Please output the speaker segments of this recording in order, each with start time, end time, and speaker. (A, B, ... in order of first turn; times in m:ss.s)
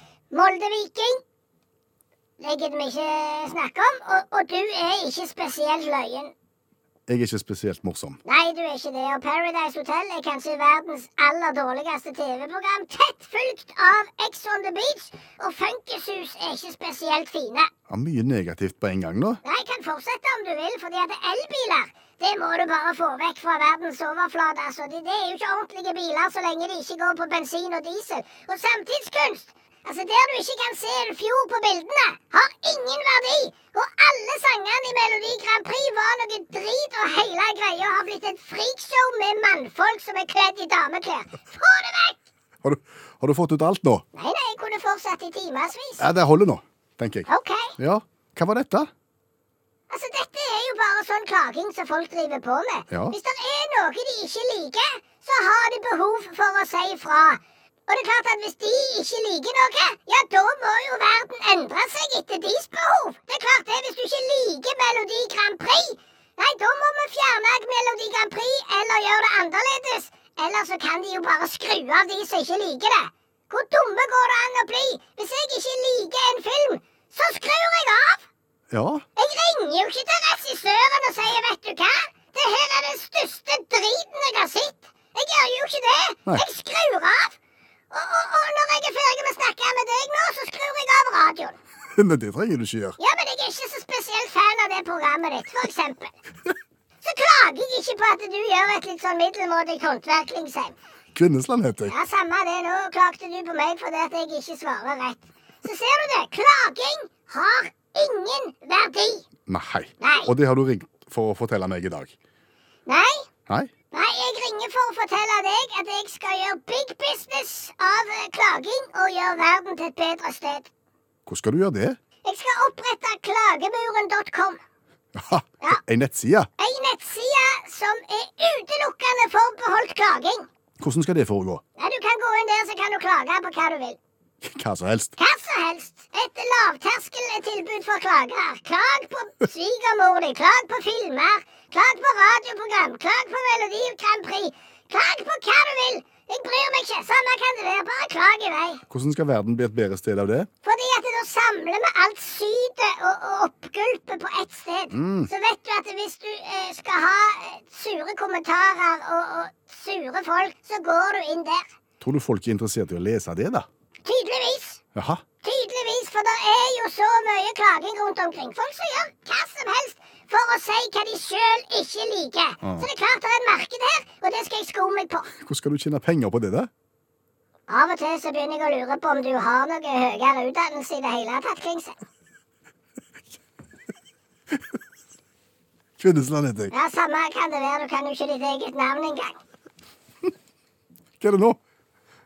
0:00.3-0:01.2 A
0:02.4-0:06.3 A
0:07.1-0:08.2 B
0:08.2-0:17.7 A
0:17.9-0:19.4 B
0:19.4-0:42.2 A
0:42.6-0:44.0 B
0:44.1-0:46.0 A
0:46.0-0:48.9 B
0:47.3-0:47.7 A
0:49.9-1:18.2 A
0:52.9-0:53.2 B
1:18.7-1:19.0 B
1:19.2-1:27.4 A
1:27.9-1:31.6 A
1:32.0-1:33.0 B
1:33.0-1:36.1 A
1:37.0-1:40.7 A
1:41.1-1:42.0 B
1:41.8-1:49.3 A
1:49.5-1:52.1 B
1:50.0-1:50.3 A
1:52.8-1:53.2 A
1:53.9-2:00.7 A
2:01.3-2:02.0 B
2:02.2-2:04.6 A
2:05.1-2:06.5 B
2:06.6-2:10.5 A
2:10.8-2:11.6 B
2:11.8-2:14.0 A
2:14.4-2:15.2 B
2:15.2-2:28.8 A
2:28.9-2:30.5 B
2:30.6-2:41.6 A
2:34.9-2:35.3 B
2:42.0-2:43.7 B
2:44.0-2:44.8 A
2:44.9-2:45.2 B
2:45.4-2:55.3 A
2:55.4-2:56.7 B
2:57.7-3:01.9 A
3:06.0-3:06.7 B
3:06.7-3:09.4 A
3:11.2-3:11.6 B